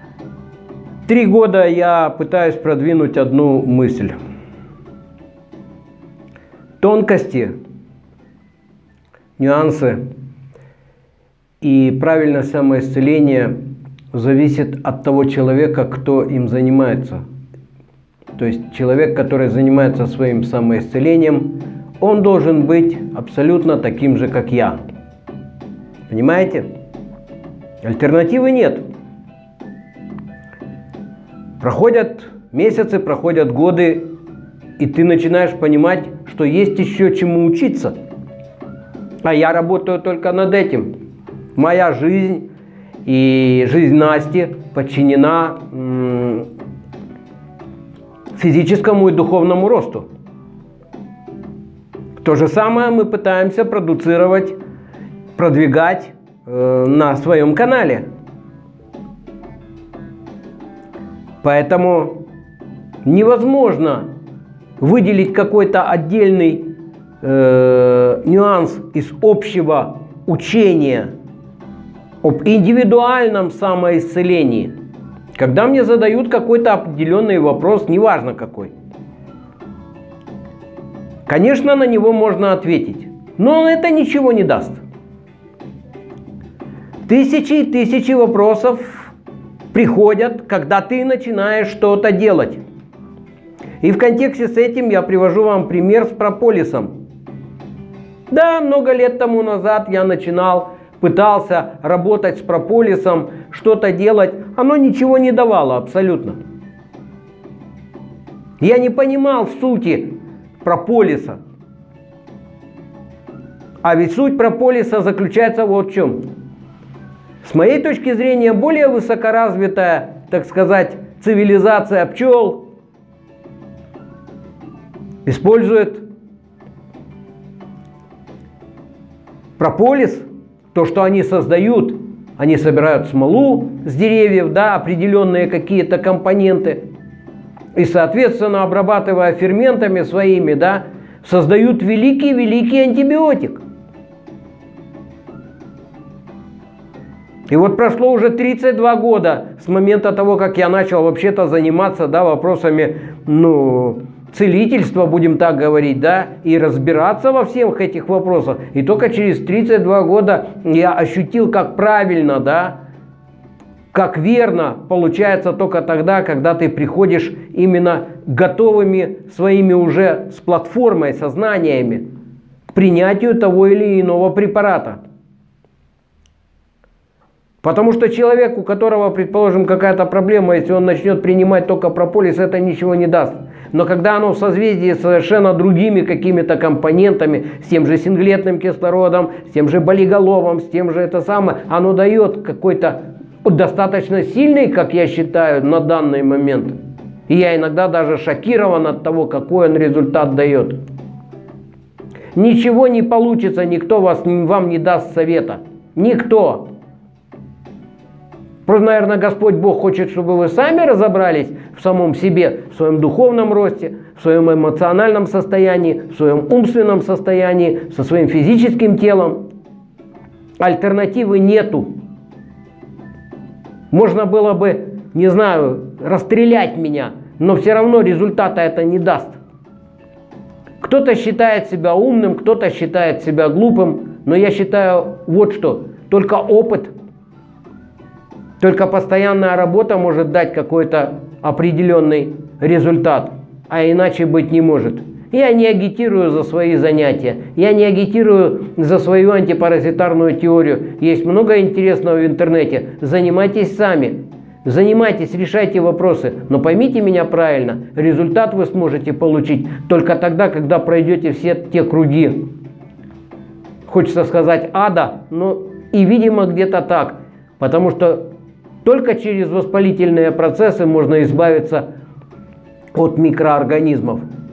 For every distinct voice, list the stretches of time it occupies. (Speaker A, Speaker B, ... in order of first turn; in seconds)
Speaker A: 1.1-4.2, 6.8-7.5, 9.4-10.0, 11.6-13.6, 14.1-17.2, 18.4-24.8, 26.1-26.7, 27.8-28.9, 31.6-34.1, 34.8-38.0, 39.2-40.9, 41.6-42.5, 43.1-46.5, 48.4-50.1, 52.2-54.6, 55.4-58.1, 61.4-62.2, 63.0-64.1, 64.8-71.1, 72.2-74.7, 75.4-78.7, 81.3-84.8, 87.1-89.1, 89.7-92.6, 93.8-96.9, 98.3-106.4, 108.6-111.4, 113.8-116.3, 117.4-122.7, 125.3-126.0, 129.6-136.8, 137.8-143.6, 147.5-162.8, 163.9-172.1, 172.7-175.0, 177.6-196.8, 197.3-200.8, 202.4-206.7, 208.7-219.4, 220.6-221.9, 223.9-229.4, 230.8-236.9, 238.6-262.5, 263.9-268.3, 268.8-271.9, 272.9-274.2